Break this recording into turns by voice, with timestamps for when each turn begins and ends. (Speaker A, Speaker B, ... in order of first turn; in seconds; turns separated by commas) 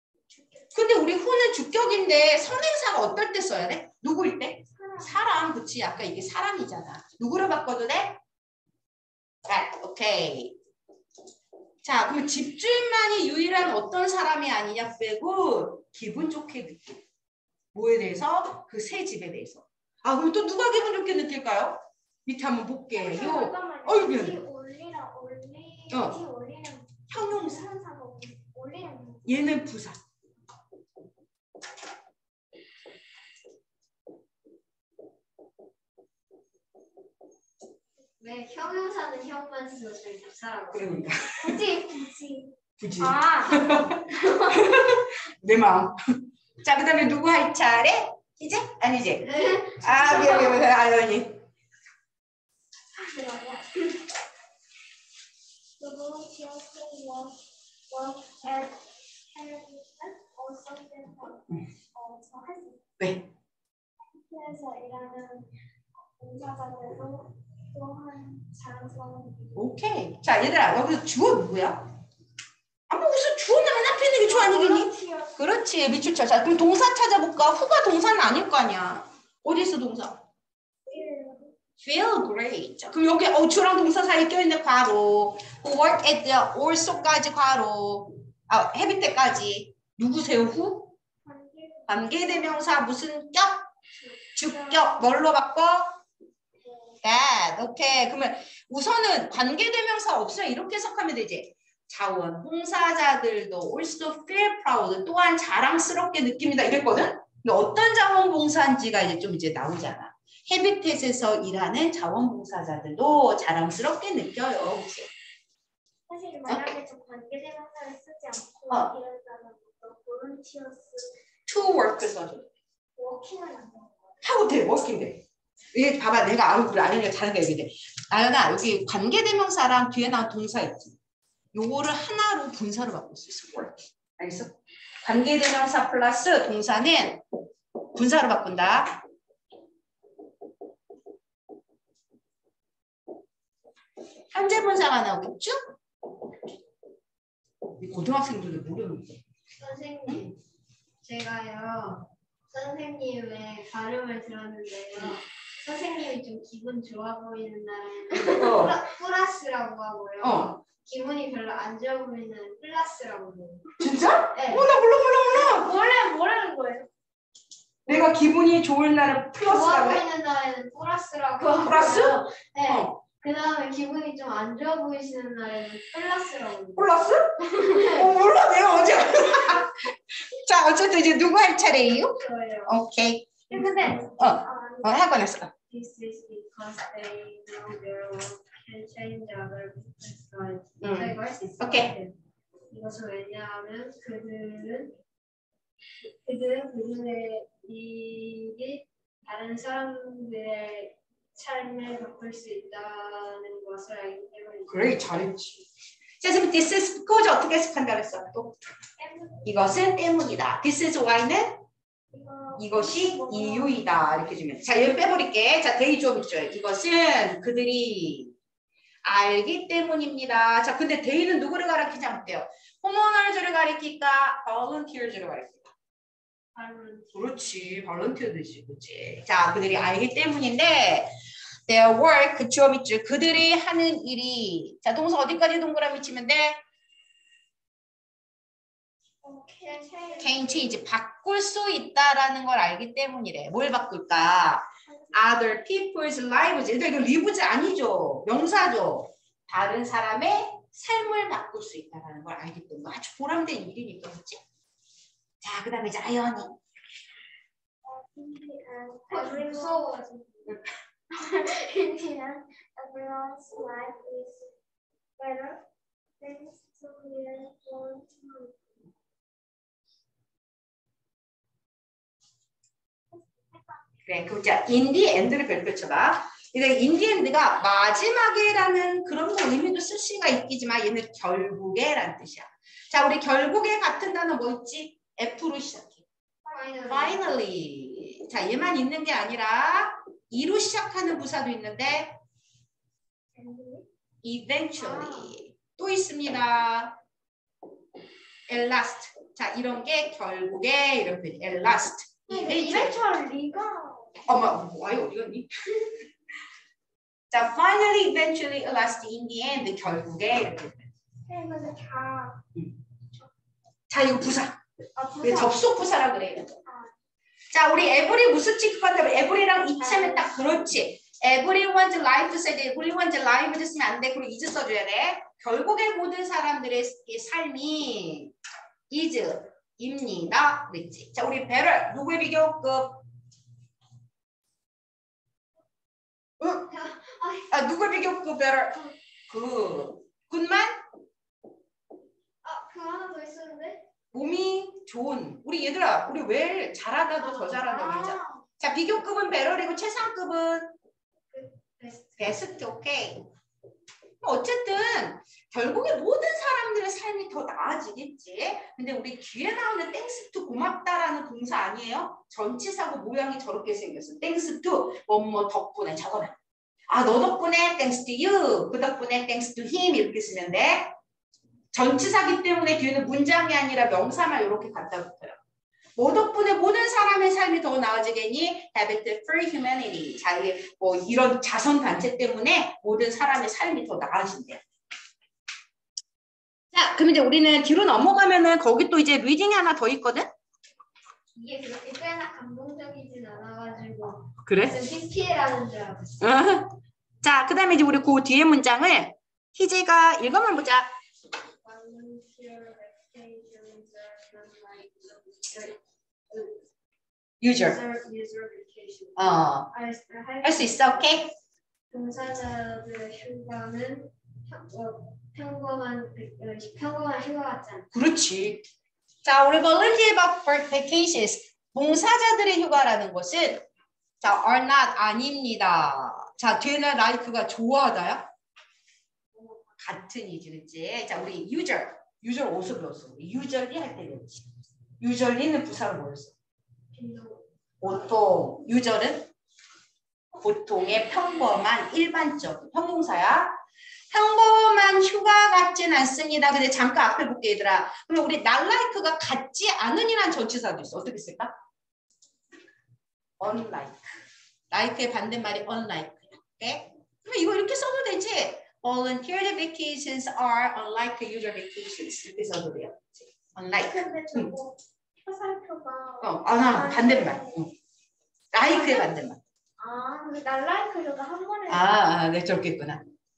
Speaker A: 0.3-0.6, Speaker B: 0.7-8.2, Speaker A: 4.8-5.2, Speaker B: 9.4-10.6, Speaker B: 11.8-17.0, Speaker B: 17.7-24.4, Speaker A: 22.9-29.6, Speaker B: 25.9-26.2, Speaker B: 27.1-27.7, Speaker B: 29.3-30.0, Speaker C: 38.2-41.1, Speaker B: 40.7-41.6, Speaker A: 41.4-44.6, Speaker B: 42.8-51.4, Speaker C: 49.2-50.5, Speaker A: 53.0-54.0, Speaker A: 55.8-57.4, Speaker A: 57.9-62.8, Speaker B: 63.0-63.3, Speaker A: 64.1-65.5, Speaker A: 66.2-69.7, Speaker B: 69.5-71.9, Speaker B: 72.9-80.2, Speaker A: 74.2-75.4, Speaker A: 80.9-81.5, Speaker B: 81.8-90.9, Speaker A: 91.2-92.7, Speaker B: 91.9-93.7, Speaker A: 94.1-95.0, Speaker B: 94.3-96.0, Speaker A: 96.7-97.0, Speaker B: 97.0-115.1, Speaker A: 116.1-121.8, Speaker B: 118.7-118.9, Speaker B: 121.5-122.5, Speaker A: 123.0-124.2, Speaker B: 124.2-131.0, Speaker B: 131.5-137.2, Speaker B: 137.9-139.0, Speaker B: 144.3-145.7, Speaker B: 147.8-149.2, Speaker C: 149.6-150.3, Speaker C: 151.0-163.8, Speaker B: 158.2-158.8, Speaker B: 160.2-160.6, Speaker B: 163.8-165.7, Speaker C: 164.3-164.7, Speaker A: 165.3-166.9, Speaker B: 167.9-170.1, Speaker C: 169.4-178.1, Speaker B: 171.5-173.0, Speaker B: 176.8-185.5, Speaker C: 182.2-182.8, Speaker A: 183.5-185.0, Speaker C: 185.7-192.2, Speaker B: 190.8-191.9, Speaker C: 192.7-194.9, Speaker C: 196.1-205.1, Speaker B: 204.7-205.7, Speaker B: 206.2-208.6, Speaker A: 209.0-209.5, Speaker B: 209.4-211.6, Speaker A: 212.1-213.8, Speaker B: 212.6-218.3, Speaker B: 219.0-225.7, Speaker C: 226.6-227.4, Speaker B: 227.1-231.1, Speaker B: 231.7-236.6, Speaker A: 239.2-240.5, Speaker C: 239.5-240.6, Speaker B: 240.2-254.4, Speaker A: 244.9-245.4, Speaker B: 255.4-256.6, Speaker A: 257.9-259.9, Speaker C: 259.1-260.6, Speaker A: 261.1-264.5, Speaker A: 265.2-265.6, Speaker A: 266.2-268.6, Speaker B: 274.1-286.0, Speaker A: 286.5-287.1, Speaker C: 286.5-287.2, Speaker B: 286.9-292.2, Speaker A: 293.4-293.9, Speaker B: 294.2-297.0, Speaker A: 294.8-295.3, Speaker B: 298.5-303.0, Speaker A: 302.3-304.2, Speaker B: 304.2-305.9, Speaker B: 307.3-310.9, Speaker A: 311.3-312.4, Speaker B: 313.9-314.6, Speaker A: 315.0-315.6, Speaker B: 315.2-316.6, Speaker A: 316.7-316.9, Speaker B: 317.5-328.3, Speaker B: 328.9-333.0, Speaker B: 336.4-336.7, Speaker C: 336.7-337.6, Speaker B: 337.5-338.8, Speaker B: 339.3-340.8, Speaker C: 342.4-343.8, Speaker B: 344.1-350.8, Speaker C: 347.2-348.3, Speaker C: 351.3-352.6, Speaker B: 352.2-353.2, Speaker B: 354.2-366.4, Speaker B: 366.9-370.9, Speaker B: 371.7-375.4, Speaker B: 376.0-384.6, Speaker B: 386.7-390.3, Speaker C: 391.4-396.2, Speaker B: 394.4-394.8, Speaker B: 396.2-400.9, Speaker C: 401.6-405.8, Speaker C: 406.3-406.6, Speaker B: 407.4-407.8, Speaker C: 407.5-411.2, Speaker B: 409.2-409.7, Speaker B: 410.4-411.3, Speaker C: 411.9-417.9, Speaker B: 417.9-418.7, Speaker B: 419.2-423.6, Speaker B: 424.2-428.3, Speaker C: 429.4-429.7, Speaker B: 429.8-434.5, Speaker B: 435.0-436.3, Speaker C: 436.9-437.4, Speaker B: 437.8-439.3, Speaker B: 440.4-443.6, Speaker B: 444.1-451.6, Speaker B: 453.4-454.1, Speaker B: 454.7-464.5, Speaker A: 463.9-467.7, Speaker B: 466.2-467.7, Speaker B: 468.5-469.4, Speaker A: 468.6-469.1, Speaker A: 469.8-472.1, Speaker B: 471.7-473.1